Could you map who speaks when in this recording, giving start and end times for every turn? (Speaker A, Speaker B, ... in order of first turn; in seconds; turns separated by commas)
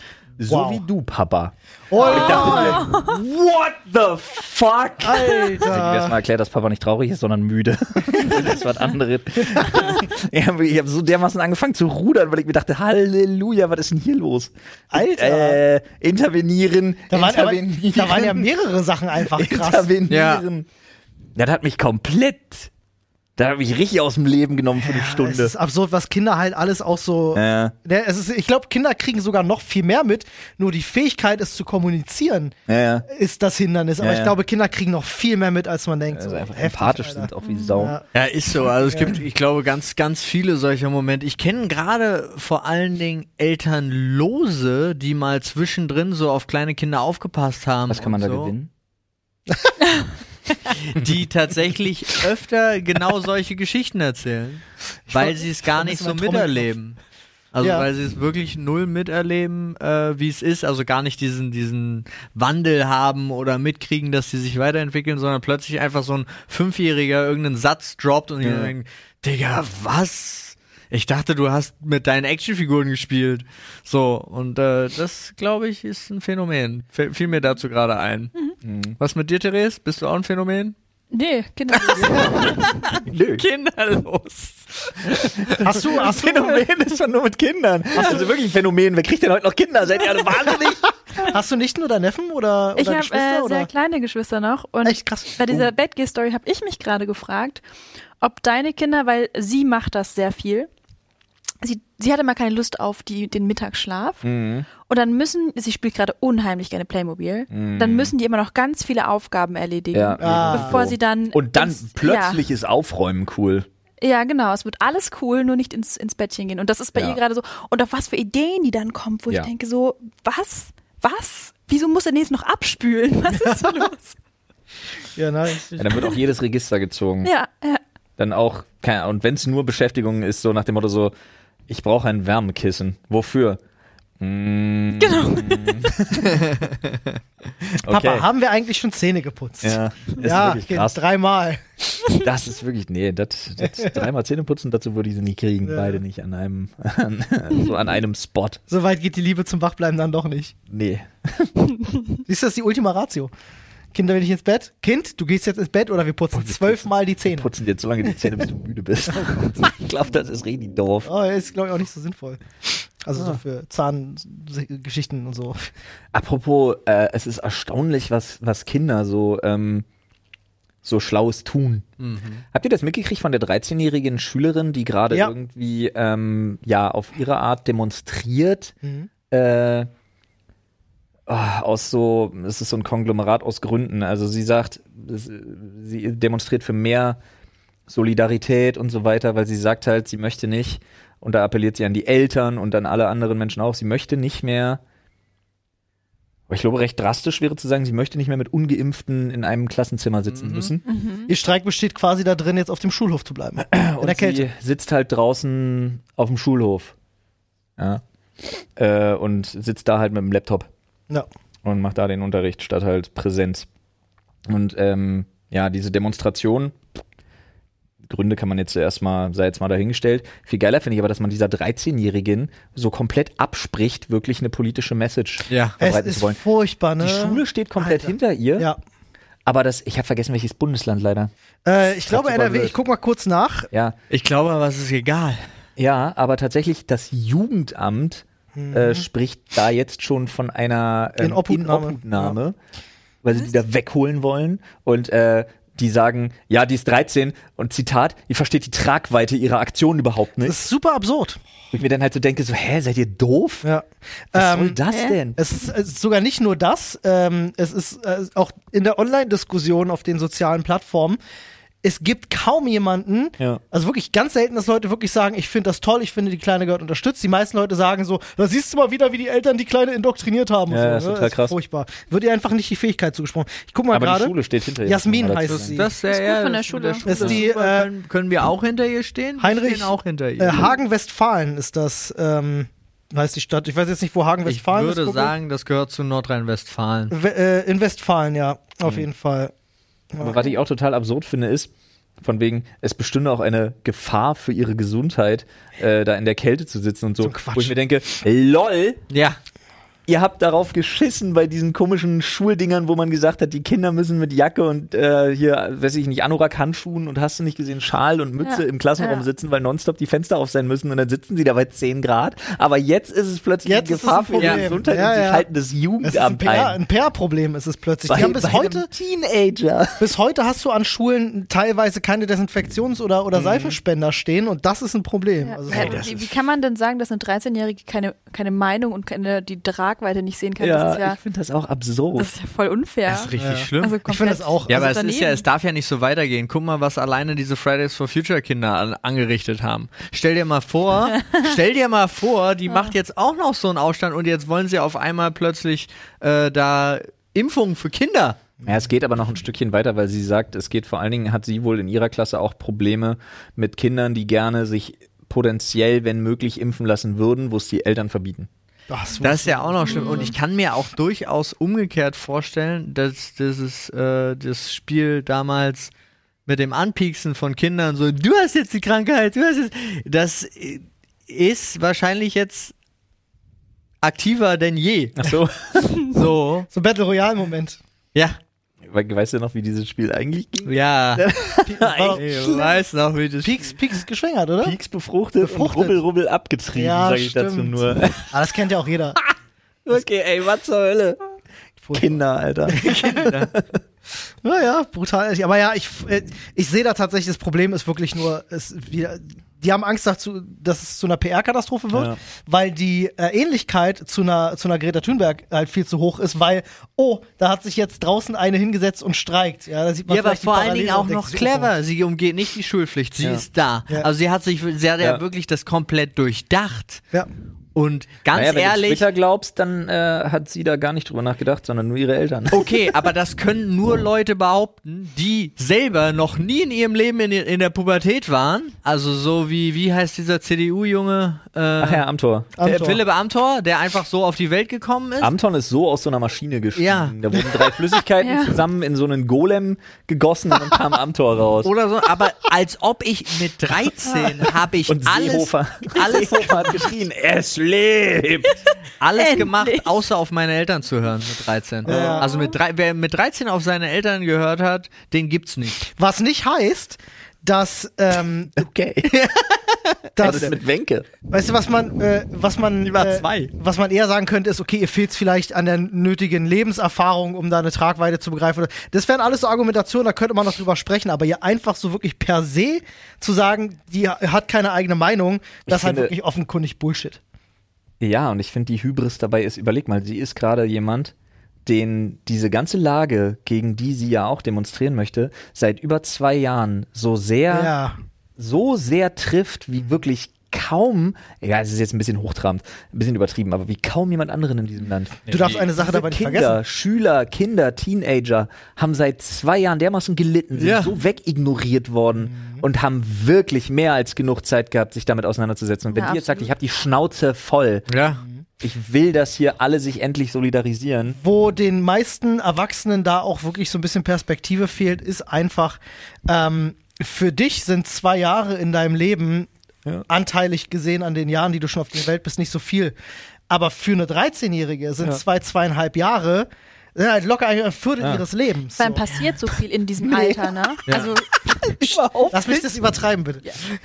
Speaker A: 0.4-18.5, Speaker B: 0.5-0.8, Speaker B: 1.9-2.9, Speaker C: 2.0-3.2, Speaker B: 5.0-6.2, Speaker B: 8.1-8.4, Speaker B: 9.6-9.9, Speaker B: 14.9-15.6, Speaker B: 17.1-19.9, Speaker A: 19.2-20.7, Speaker D: 20.1-20.4, Speaker A: 21.4-22.7, Speaker A: 23.4-25.5, Speaker B: 24.8-32.5, Speaker A: 27.3-27.7, Speaker A: 32.7-33.0, Speaker B: 33.0-38.1, Speaker A: 34.0-34.4, Speaker A: 36.1-38.0, Speaker C: 37.4-37.9, Speaker D: 38.1-48.5, Speaker B: 38.9-39.2, Speaker A: 47.9-48.7, Speaker D: 50.6-57.0, Speaker B: 55.1-56.7, Speaker D: 57.5-78.3, Speaker B: 57.6-57.9, Speaker A: 68.4-68.7, Speaker A: 78.6-79.0, Speaker D: 79.0-80.7, Speaker C: 81.1-82.7, Speaker D: 81.8-85.6, Speaker B: 82.0-82.5, Speaker A: 83.0-83.5, Speaker A: 85.4-90.9, Speaker B: 85.6-86.6, Speaker B: 91.2-93.7, Speaker C: 92.8-97.6, Speaker B: 94.8-95.7, Speaker C: 98.2-100.7, Speaker C: 101.6-112.4, Speaker A: 104.2-104.7, Speaker A: 107.5-108.1, Speaker A: 109.9-113.7, Speaker B: 110.2-110.9, Speaker C: 114.0-124.2, Speaker A: 116.9-117.2, Speaker B: 125.1-125.7, Speaker A: 125.8-127.3, Speaker C: 127.2-127.8, Speaker A: 128.2-131.1, Speaker A: 131.7-133.6, Speaker A: 134.2-136.4, Speaker C: 135.0-135.8, Speaker D: 136.3-137.1, Speaker A: 137.8-138.2, Speaker B: 137.8-141.8, Speaker A: 139.6-141.0, Speaker A: 142.2-148.6, Speaker B: 143.6-144.0, Speaker B: 145.6-146.0, Speaker B: 148.7-150.5, Speaker A: 150.7-151.5, Speaker B: 152.2-153.3, Speaker B: 153.9-157.5, Speaker A: 156.3-161.1, Speaker B: 159.1-159.4, Speaker B: 161.0-165.7, Speaker A: 163.1-163.4, Speaker A: 166.1-169.8, Speaker A: 170.8-171.9, Speaker D: 172.0-172.4, Speaker A: 172.5-178.7, Speaker B: 178.8-179.1, Speaker A: 179.3-179.9, Speaker A: 181.3-187.2, Speaker A: 187.9-194.8, Speaker A: 196.5-200.8, Speaker D: 200.3-200.7, Speaker C: 200.8-201.3, Speaker B: 201.3-204.5, Speaker A: 203.6-206.9, Speaker A: 207.8-210.7, Speaker A: 211.6-213.7, Speaker A: 214.5-216.8, Speaker A: 218.0-226.4, Speaker D: 225.5-225.8, Speaker B: 225.8-228.8, Speaker A: 227.0-228.7, Speaker A: 229.4-231.3, Speaker B: 231.6-233.7, Speaker A: 232.0-232.8, Speaker D: 234.1-235.4, Speaker A: 235.8-242.6, Speaker B: 238.5-239.1, Speaker B: 241.2-242.4, Speaker A: 243.2-250.6, Speaker B: 250.4-251.4, Speaker A: 251.7-253.7, Speaker B: 253.6-254.8, Speaker A: 254.3-255.4, Speaker C: 254.9-255.2, Speaker B: 255.3-261.2, Speaker B: 261.8-274.3, Speaker A: 270.7-271.6, Speaker A: 273.9-275.9, Speaker B: 274.8-275.9, Speaker D: 275.4-280.8, Speaker C: 276.1-277.2, Speaker B: 277.0-277.9, Speaker A: 277.1-277.4, Speaker B: 279.4-285.3, Speaker D: 284.4-287.1, Speaker B: 287.1-289.5, Speaker B: 290.1-290.5, Speaker A: 290.2-299.0, Speaker B: 297.2-297.7, Speaker D: 299.1-299.4, Speaker A: 300.1-316.8, Speaker C: 308.4-309.2, Speaker B: 313.6-315.4, Speaker D: 314.4-314.6, Speaker B: 316.0-318.9, Speaker A: 318.1-320.1, Speaker B: 320.0-326.1, Speaker D: 323.3-323.8, Speaker C: 325.4-331.2, Speaker D: 325.7-326.3, Speaker A: 330.6-332.3, Speaker C: 332.1-335.4, Speaker D: 333.1-334.0, Speaker B: 333.4-334.9, Speaker D: 334.7-348.4, Speaker C: 341.1-341.5, Speaker C: 342.7-342.9, Speaker A: 348.6-358.5, Speaker B: 358.9-360.3, Speaker D: 359.2-365.9, Speaker C: 359.8-360.3, Speaker D: 366.4-372.7, Speaker D: 374.0-376.7, Speaker A: 375.2-376.0, Speaker B: 376.7-377.8, Speaker A: 378.9-382.7, Speaker D: 380.6-381.2, Speaker B: 381.6-382.8, Speaker D: 382.1-383.8, Speaker B: 383.4-384.8, Speaker A: 384.6-388.4, Speaker B: 385.4-386.0, Speaker B: 386.7-389.2, Speaker A: 389.8-391.2, Speaker B: 391.8-393.3, Speaker A: 391.9-393.8, Speaker D: 393.0-393.5, Speaker B: 394.4-411.7, Speaker A: 401.9-402.2, Speaker D: 410.1-417.0, Speaker D: 417.7-419.1, Speaker A: 418.3-422.8, Speaker D: 422.5-432.0, Speaker A: 431.8-432.8, Speaker B: 432.6-433.0, Speaker D: 432.6-435.3, Speaker A: 435.2-441.7, Speaker D: 436.8-437.2, Speaker C: 438.2-438.6, Speaker D: 441.6-446.8, Speaker A: 444.9-448.6, Speaker D: 449.0-455.9, Speaker C: 449.2-449.9, Speaker B: 451.9-452.3, Speaker C: 452.2-452.6, Speaker B: 455.9-458.6, Speaker A: 458.6-459.1, Speaker D: 459.0-460.5, Speaker B: 460.1-460.5, Speaker A: 460.2-461.1, Speaker B: 461.3-477.2, Speaker D: 462.8-463.5, Speaker A: 475.7-476.1, Speaker A: 478.0-481.1, Speaker A: 481.6-487.7, Speaker B: 487.5-488.0, Speaker A: 488.4-507.9, Speaker D: 495.2-495.6, Speaker B: 495.3-496.6, Speaker D: 500.6-501.0, Speaker B: 502.2-502.6, Speaker C: 505.9-506.5, Speaker D: 507.9-508.2, Speaker A: 508.6-511.2, Speaker B: 511.2-519.5, Speaker B: 520.1-522.9, Speaker B: 523.5-529.1, Speaker C: 528.8-532.0, Speaker A: 530.0-530.4, Speaker D: 530.9-531.1, Speaker A: 531.8-532.7, Speaker B: 532.3-533.4